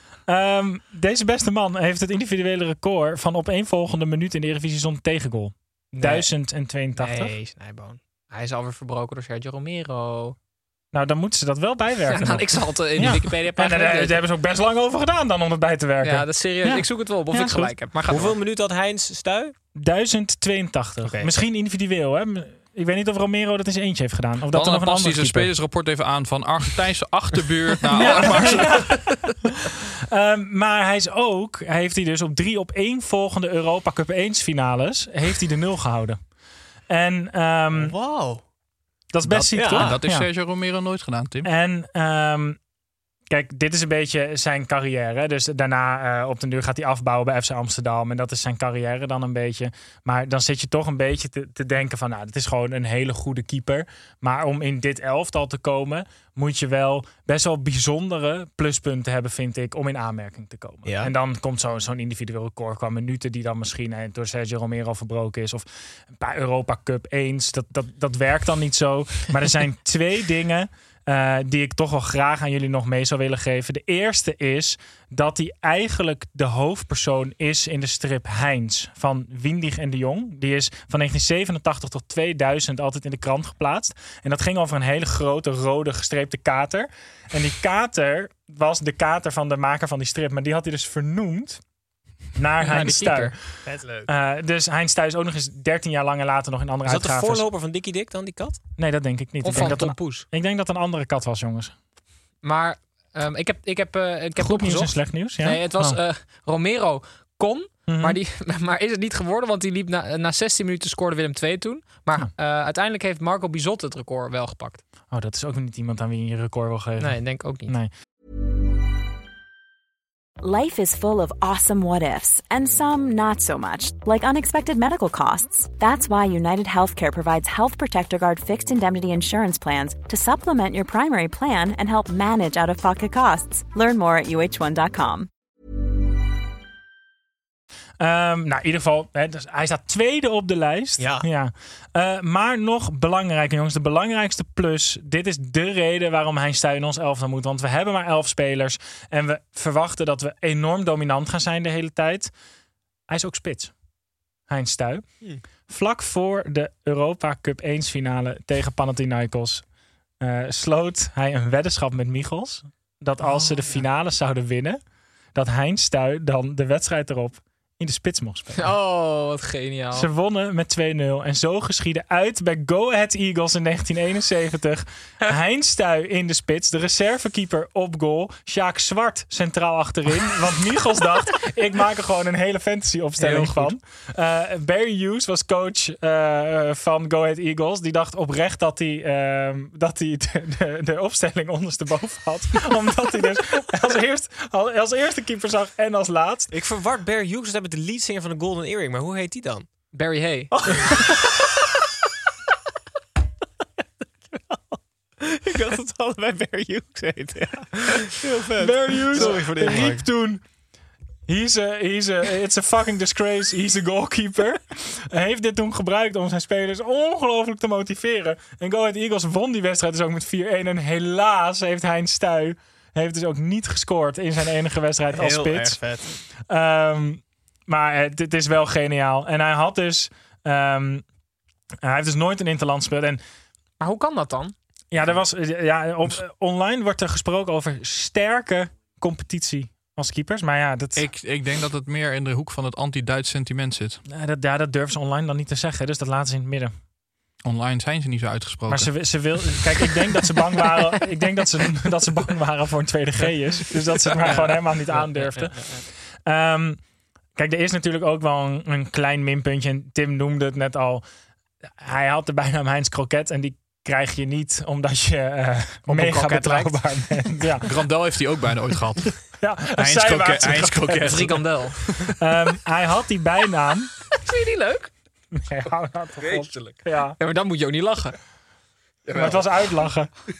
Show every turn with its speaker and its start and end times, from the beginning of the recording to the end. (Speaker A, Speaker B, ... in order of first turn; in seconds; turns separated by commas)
Speaker A: 0.3-7.3, Speaker B: 6.0-6.3, Speaker B: 7.0-10.3, Speaker A: 10.9-17.8, Speaker B: 12.0-14.2, Speaker B: 16.0-18.4, Speaker C: 18.1-19.5, Speaker A: 19.7-25.5, Speaker C: 21.0-21.3, Speaker D: 24.5-29.3, Speaker A: 27.9-36.2, Speaker A: 36.9-37.9, Speaker C: 37.7-38.4, Speaker A: 39.1-40.3, Speaker D: 39.3-41.5, Speaker C: 39.5-40.0, Speaker A: 41.4-42.6, Speaker A: 43.3-91.6, Speaker C: 60.9-61.1, Speaker A: 92.4-93.3, Speaker B: 92.6-93.3, Speaker C: 93.6-94.1, Speaker A: 94.1-97.5, Speaker C: 96.8-98.6, Speaker A: 98.8-101.7, Speaker B: 99.4-100.2, Speaker B: 102.4-114.8, Speaker A: 104.4-106.0, Speaker A: 107.9-108.2, Speaker A: 115.1-117.9, Speaker B: 117.0-117.7, Speaker E: 120.4-135.3, Speaker A: 138.0-152.3, Speaker C: 141.0-141.2, Speaker A: 153.1-153.7, Speaker A: 154.5-155.0, Speaker A: 155.7-159.6, Speaker A: 160.2-164.8, Speaker B: 163.2-163.8, Speaker A: 165.3-168.7, Speaker B: 168.6-170.1, Speaker A: 169.9-196.5, Speaker B: 183.2-183.7, Speaker C: 196.5-199.7, Speaker B: 199.9-201.0, Speaker C: 200.5-201.6, Speaker C: 204.3-210.0, Speaker A: 208.6-210.4, Speaker A: 211.3-225.8, Speaker C: 225.1-226.1, Speaker A: 226.5-231.0, Speaker A: 231.8-233.2, Speaker B: 233.8-234.5, Speaker A: 234.9-241.0, Speaker D: 240.9-244.0, Speaker A: 244.1-246.7, Speaker D: 247.4-249.4, Speaker A: 248.7-255.7, Speaker B: 255.1-255.4, Speaker A: 256.2-256.8, Speaker A: 257.4-261.0, Speaker A: 261.8-267.7, Speaker C: 265.9-266.7, Speaker B: 266.1-266.5, Speaker D: 267.6-269.2, Speaker A: 269.4-271.3, Speaker D: 269.7-272.1, Speaker B: 271.0-271.8, Speaker A: 272.0-273.9, Speaker B: 274.1-274.9, Speaker A: 275.3-277.2, Speaker D: 276.4-276.8, Speaker B: 277.1-278.1, Speaker A: 279.1-280.1